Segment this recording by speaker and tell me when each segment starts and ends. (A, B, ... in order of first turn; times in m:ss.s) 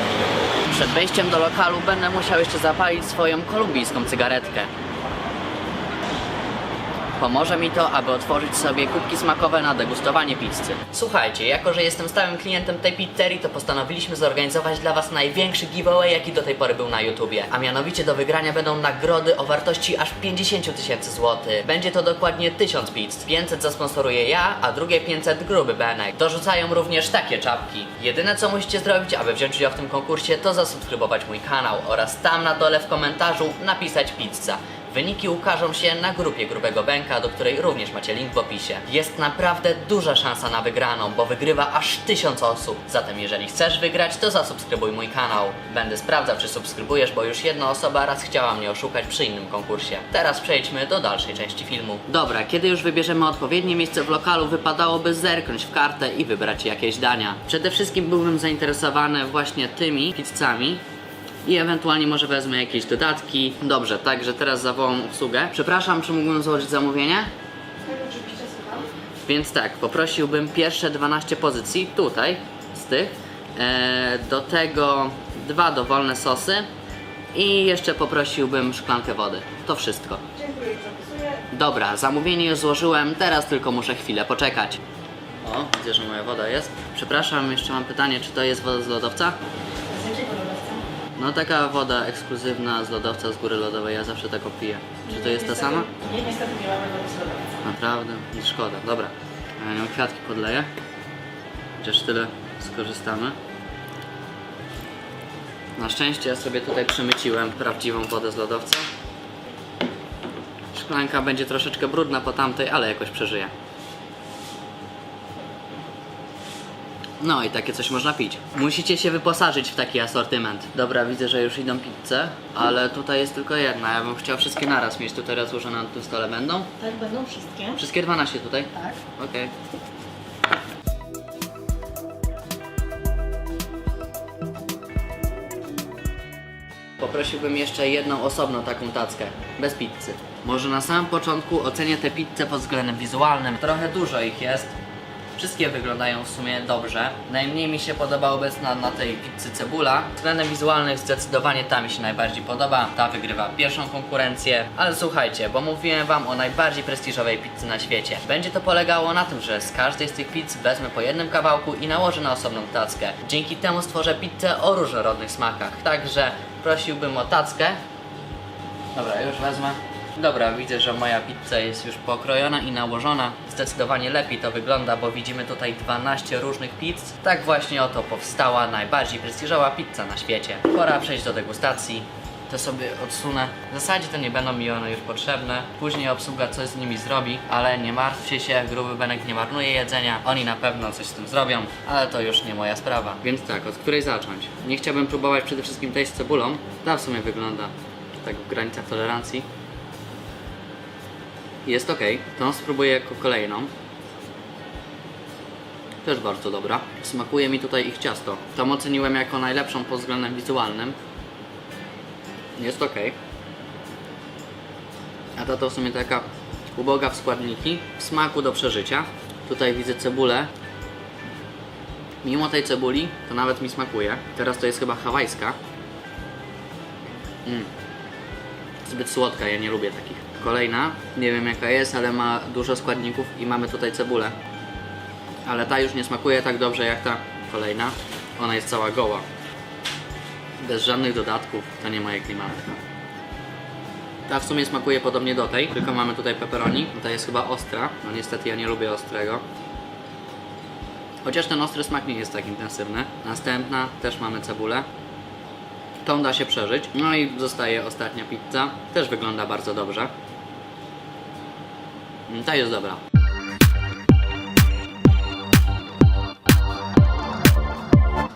0:00.7-0:04.7 A
0:07.2-1:00.8 A
1:01.4-1:07.3 A
1:07.8-1:08.8 B
1:09.2-1:16.7 A
1:17.3-1:20.2 A
1:20.5-1:21.3 B
1:21.5-1:24.8 A
1:25.4-1:29.4 A
1:29.9-1:30.8 B
1:31.2-1:35.9 A
1:35.2-1:37.6 B
1:37.6-1:40.7 A
1:41.8-1:43.4 A
1:45.8-1:48.8 A
1:50.7-1:53.5 A
1:57.2-2:06.8 A
2:06.8-2:07.8 B
2:07.7-2:09.5 A
2:17.0-2:24.7 A
2:25.4-2:47.8 A
2:48.9-3:19.4 A
3:21.6-3:23.7 A
3:26.0-3:31.0 A
3:32.6-3:33.2 A
3:35.4-3:40.5 A
3:42.2-3:45.6 A
3:47.4-3:47.7 A
3:48.8-3:54.4 A
3:55.4-3:59.2 A
4:00.6-4:02.8 A
4:04.3-4:09.4 A
4:11.2-4:14.9 A
4:16.0-4:20.1 A
4:22.3-4:23.0 A